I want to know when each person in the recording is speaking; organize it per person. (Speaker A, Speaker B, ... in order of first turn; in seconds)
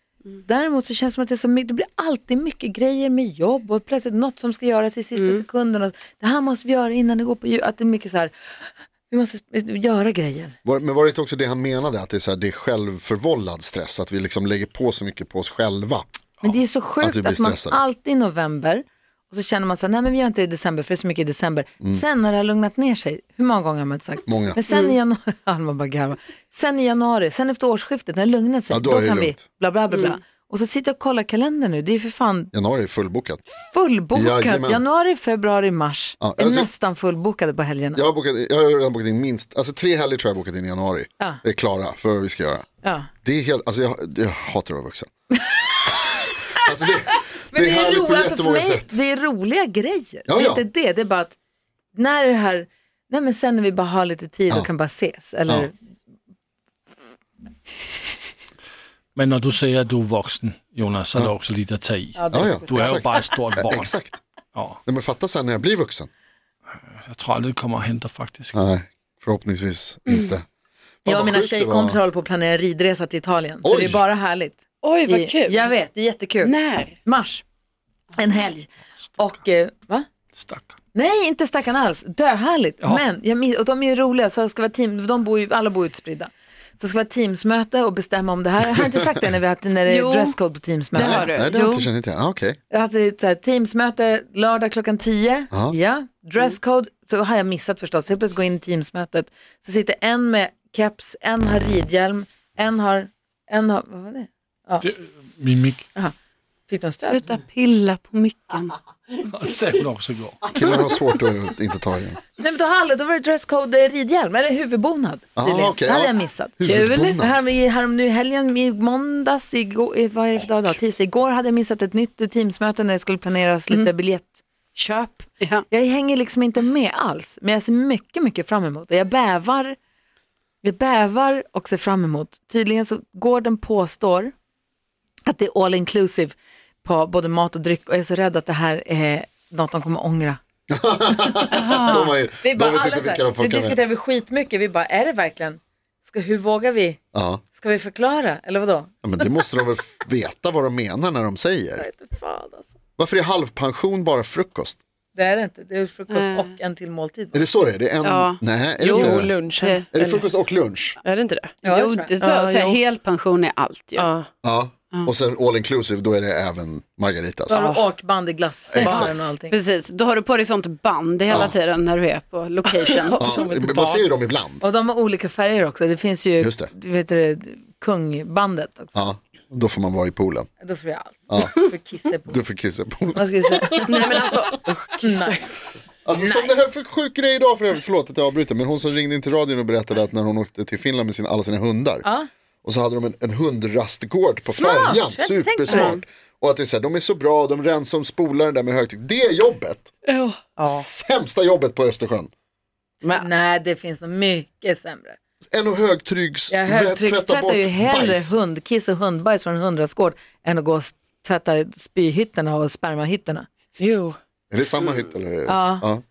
Speaker A: 0.4-10.6, 16.4-32.5, 33.6-38.0, 42.8-43.1, 45.5-46.3, 47.5-51.4, 51.9-55.7, 62.1-63.1, 71.0-77.4, 78.2-80.0, 80.9-91.3, 92.7-104.8, 106.7-107.2, 112.4-129.8, 130.6-134.3, 135.3-140.4, 141.9-147.0, 147.5-148.9, 151.8-152.8, 155.1-157.4, 161.6-162.8, 167.5-169.5, 174.6-178.9, 180.6-182.4, 183.1-184.1, 185.0-185.4, 186.1-186.7, 194.4-196.0, 203.1-205.2, 206.5-213.5, 215.4-215.9
Speaker B: 5.1-5.4, 74.8-75.7, 76.4-77.0, 89.9-90.3, 90.9-91.9, 107.1-108.7, 116.6-117.2, 141.5-142.0, 156.1-156.5, 158.0-160.2, 161.6-164.1, 168.8-173.4, 183.9-184.5, 195.7-196.0
Speaker C: 10.6-16.1, 17.0-17.8, 24.2-24.6, 28.7-29.4, 32.5-33.4, 34.1-34.8, 36.2-36.7, 37.9-42.6, 43.2-45.1, 46.5-49.0, 50.3-50.6, 62.3-64.2, 64.8-66.1, 68.5-70.4, 71.0-72.0, 73.6-74.0, 90.9-92.6, 110.5-112.2, 115.3-117.4, 140.7-143.8, 147.1-147.4, 149.0-151.9, 153.0-154.8, 157.3-159.4, 159.9-161.0, 164.4-167.7, 168.7-169.2, 171.3-171.6, 173.2-174.6, 176.4-176.7, 178.9-180.5, 182.3-184.2, 186.0-192.1, 192.6-199.9, 200.7-202.3, 205.5-208.3, 214.5-216.0
Speaker D: 59.1-63.9, 64.5-64.8, 67.0-68.5, 80.3-80.8, 104.8-105.8, 109.2-110.4
Speaker E: 158.8-159.9, 161.0-161.6, 163.9-164.3, 167.6-167.8, 173.0-174.1, 183.9-185.4, 200.1-200.8, 213.8-214.2